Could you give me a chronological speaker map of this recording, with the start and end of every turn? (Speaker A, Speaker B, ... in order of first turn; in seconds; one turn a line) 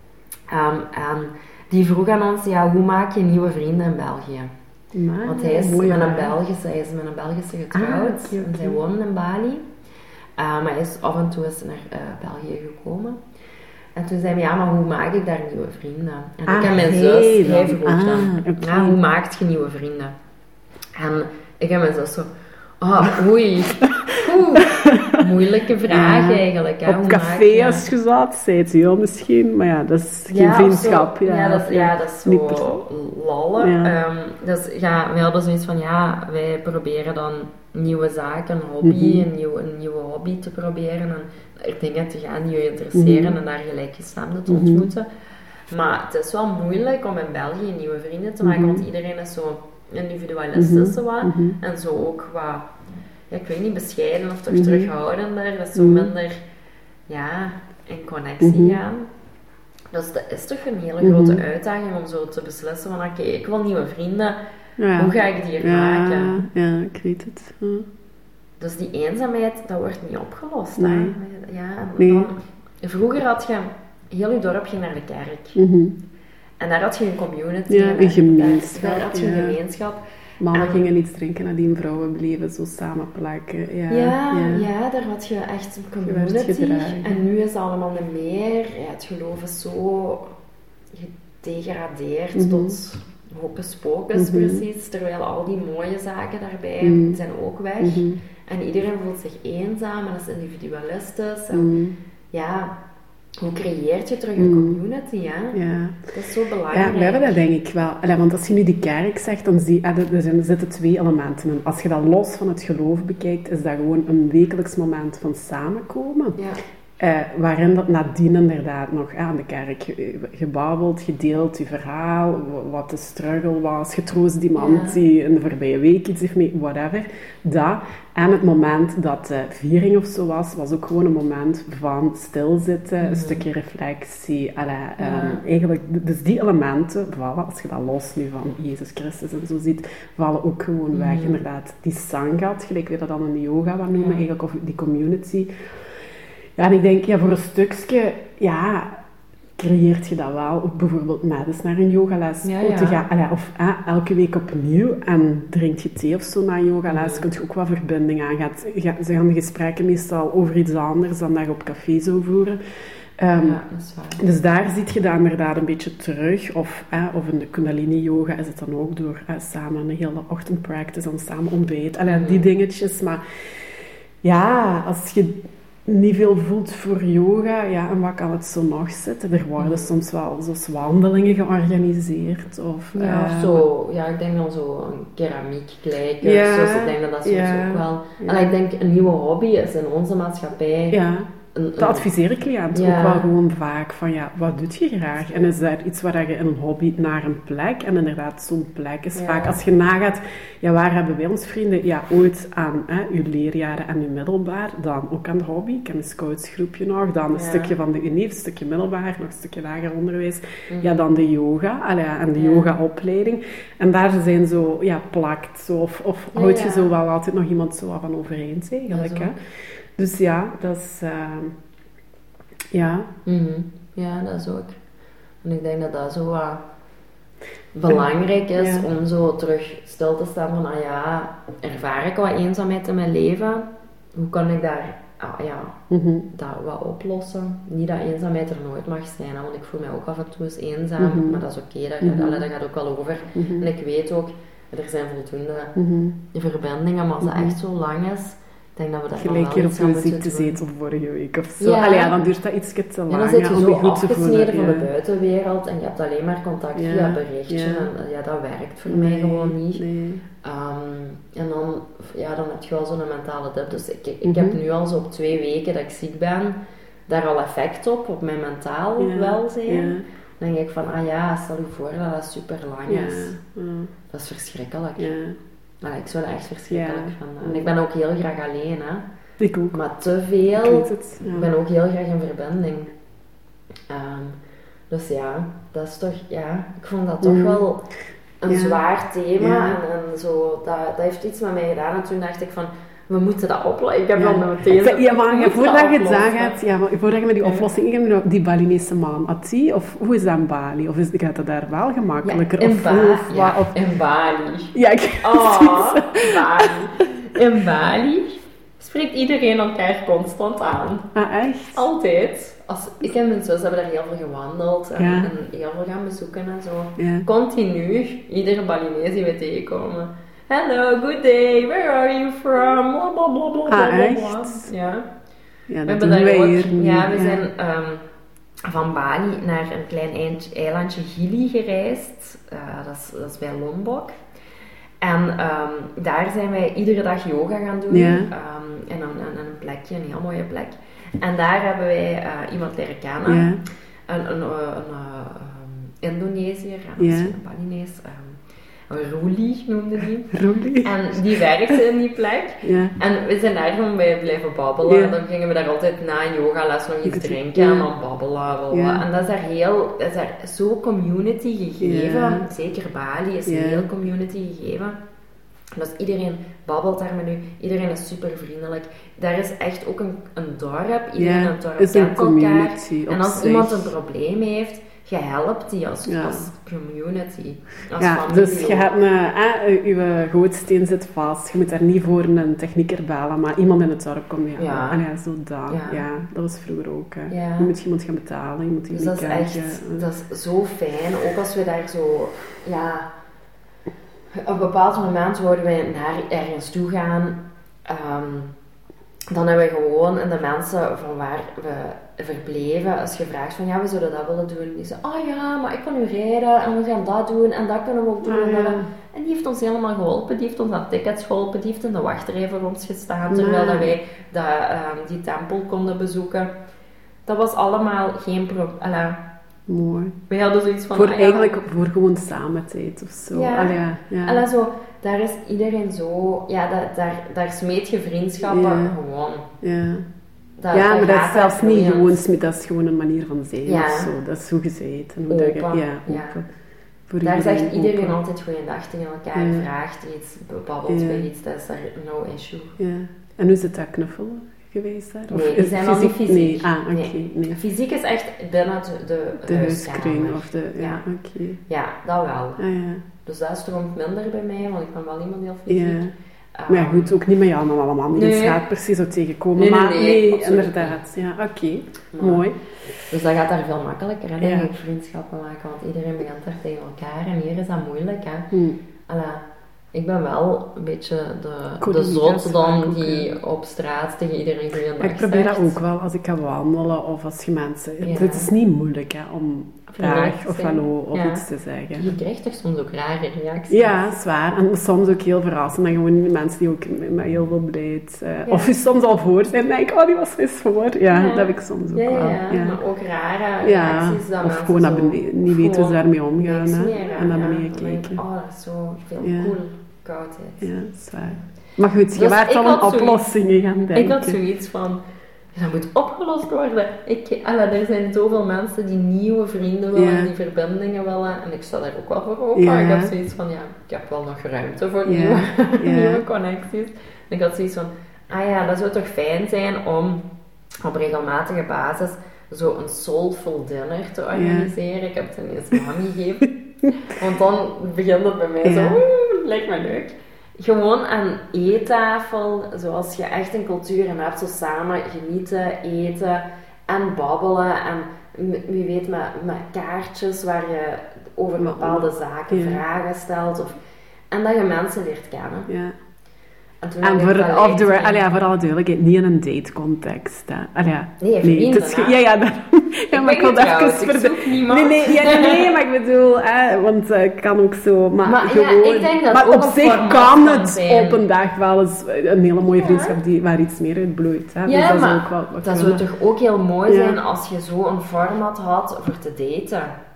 Speaker A: 0.5-4.5
Speaker B: 4.9-6.3
Speaker A: 5.2-9.6
Speaker B: 7.7-8.8
Speaker A: 10.4-13.2
Speaker A: 13.9-20.1
Speaker B: 16.4-19.0
Speaker A: 20.9-22.3
Speaker A: 22.8-27.9
Speaker B: 23.8-25.2
Speaker B: 25.9-32.8
Speaker A: 30.3-45.1
Speaker B: 33.6-34.0
Speaker B: 38.8-39.3
Speaker B: 42.9-43.4
Speaker B: 44.5-44.9
Speaker A: 45.7-52.7
Speaker B: 48.4-48.8
Speaker B: 50.5-51.6
Speaker A: 53.3-56.4
Speaker B: 54.5-54.9
Speaker B: 55.7-56.1
Speaker A: 57.1-59.1
Speaker B: 58.4-58.8
Speaker A: 59.9-64.4
Speaker B: 61.0-61.4
Speaker B: 64.8-67.9
Speaker A: 64.9-66.5
Speaker A: 68.6-75.6
Speaker B: 70.8-71.1
Speaker B: 72.0-72.3
Speaker B: 75.5-76.0
Speaker A: 76.6-80.9
Speaker B: 77.7-79.6
Speaker B: 80.4-84.7
Speaker A: 83.9-90.3
Speaker B: 86.0-87.1
Speaker A: 90.9-101.7
Speaker B: 92.3-92.8
Speaker B: 94.1-94.6
Speaker B: 96.8-97.2
Speaker B: 97.8-98.2
Speaker B: 101.5-102.0
Speaker A: 102.3-102.7
Speaker A: 103.4-105.6
Speaker B: 104.3-104.8
Speaker B: 105.5-106.1
Speaker A: 106.1-107.5
Speaker B: 106.7-116.4
Speaker B: 117.0-145.5
Speaker A: 124.5-125.0
Speaker A: 133.0-133.4
Speaker A: 135.0-135.4
Speaker A: 140.9-141.4
Speaker A: 143.9-144.2
Speaker B: 146.6-149.0
Speaker B: 149.6-162.6
Speaker A: 152.4-153.0
Speaker A: 156.9-157.3
Speaker B: 163.2-163.6
Speaker A: 163.3-164.2
Speaker B: 164.2-173.2
Speaker A: 172.1-172.5
Speaker B: 174.2-183.6
Speaker A: 179.6-179.9
Speaker A: 182.9-191.0
Speaker B: 186.2-188.6
Speaker B: 190.9-219.4
Speaker A: 191.5-192.1
Speaker A: 192.7-193.3
Speaker A: 195.2-195.6
Speaker A: 199.1-199.6
Speaker A: 207.3-207.7
Speaker A: 210.7-211.0
Speaker A: 212.3-212.7
Speaker A: 216.3-216.9
Speaker A: 218.9-219.3
Speaker B: 220.0-221.5
Speaker B: 222.7-223.1
Speaker A: 223.2-224.8
Speaker A: 225.4-226.6
Speaker A: 227.7-235.7
Speaker B: 228.6-228.9
Speaker B: 235.9-236.3
Speaker A: 236.3-245.7
Speaker B: 241.0-241.4
Speaker B: 242.0-242.4
Speaker B: 243.3-243.7
Speaker B: 245.8-246.2
Speaker A: 246.3-250.6
Speaker B: 247.2-247.6
Speaker B: 249.1-254.9
Speaker A: 251.6-252.2
Speaker A: 253.1-259.8
Speaker B: 256.7-257.9
Speaker B: 258.9-260.2
Speaker A: 260.4-266.6
Speaker B: 264.2-264.6
Speaker A: 267.1-273.3
Speaker B: 269.0-270.0
Speaker B: 272.9-273.9
Speaker A: 274.1-275.1
Speaker B: 275.0-275.4
Speaker A: 275.8-279.0
Speaker B: 276.7-277.7
Speaker B: 279.4-279.8
Speaker A: 279.7-282.9
Speaker B: 280.6-281.5
Speaker A: 283.9-284.4
Speaker A: 284.9-287.8
Speaker B: 287.2-287.7
Speaker A: 288.4-296.6
Speaker B: 288.5-288.8
Speaker B: 289.4-289.8
Speaker B: 294.1-303.8
Speaker A: 297.4-297.7
Speaker A: 302.2-311.1
Speaker B: 304.7-307.0
Speaker B: 311.1-311.9
Speaker A: 311.7-325.1
Speaker B: 315.0-315.3
Speaker B: 317.0-317.3
Speaker B: 323.7-324.7
Speaker B: 325.7-327.4
Speaker A: 325.8-328.0
Speaker A: 328.6-334.1
Speaker A: 335.0-343.5
Speaker B: 337.9-338.3
Speaker B: 343.3-343.6
Speaker A: 344.1-365.0
Speaker B: 347.0-347.3
Speaker B: 350.3-351.7
Speaker B: 352.6-352.9
Speaker B: 354.8-355.2
Speaker B: 357.0-357.9
Speaker B: 358.7-359.0
Speaker B: 361.8-362.4
Speaker B: 363.4-363.9
Speaker A: 365.7-378.9
Speaker B: 371.2-373.9
Speaker B: 376.1-376.5
Speaker B: 378.0-390.1
Speaker A: 384.6-385.1
Speaker A: 385.7-386.1
Speaker A: 387.3-387.7
Speaker A: 388.9-393.1
Speaker A: 394.4-398.5
Speaker A: 399.3-416.5
Speaker B: 408.2-408.9
Speaker B: 413.3-413.9
Speaker A: 417.2-419.2
Speaker B: 419.7-420.2
Speaker A: 420.3-421.6
Speaker B: 420.9-424.4
Speaker A: 423.3-429.5
Speaker B: 428.4-428.9
Speaker B: 429.6-430.1
Speaker A: 430.6-432.2
Speaker B: 430.7-436.4
Speaker A: 433.6-434.1
Speaker A: 435.3-436.4
Speaker B: 437.1-438.2
Speaker A: 437.2-442.8
Speaker B: 439.3-439.7
Speaker B: 440.9-441.3
Speaker B: 442.8-447.6
Speaker A: 445.3-451.0
Speaker B: 449.4-451.6
Speaker A: 451.7-452.6
Speaker B: 452.6-453.0
Speaker A: 453.2-456.0
Speaker B: 455.7-456.1
Speaker A: 456.6-457.2
Speaker B: 456.7-462.6
Speaker A: 458.1-458.6
Speaker A: 459.5-461.0
Speaker A: 462.1-462.5
Speaker A: 463.1-468.5
Speaker B: 464.4-464.7
Speaker B: 468.5-468.8
Speaker A: 469.1-469.4
Speaker A: 469.9-475.8
Speaker B: 471.8-473.3
Speaker B: 475.0-482.1
Speaker A: 478.0-478.5
Speaker A: 479.9-481.4
Speaker A: 482.0-484.1
Speaker B: 483.7-492.8
Speaker A: 488.4-488.7
Speaker A: 491.1-500.7
Speaker B: 493.6-498.2
Speaker B: 499.2-499.6
Speaker B: 500.6-504.4
Speaker A: 502.1-503.2
Speaker A: 503.9-505.0
Speaker A: 505.5-520.3
Speaker B: 509.9-510.3
Speaker B: 512.5-513.1
Speaker B: 515.0-516.2
Speaker A: 520.8-526.5
Speaker B: 524.3-524.7
Speaker A: 527.0-543.8
Speaker B: 528.6-529.0
Speaker B: 541.6-542.8
Speaker A: 544.3-545.7
Speaker B: 545.7-545.9
Speaker A: 546.8-548.2
Speaker B: 547.0-566.0
Speaker A: 551.2-552.2
Speaker A: 553.1-555.7
Speaker A: 558.2-561.2
Speaker A: 562.7-563.2
Speaker A: 564.6-569.9
Speaker B: 566.9-567.2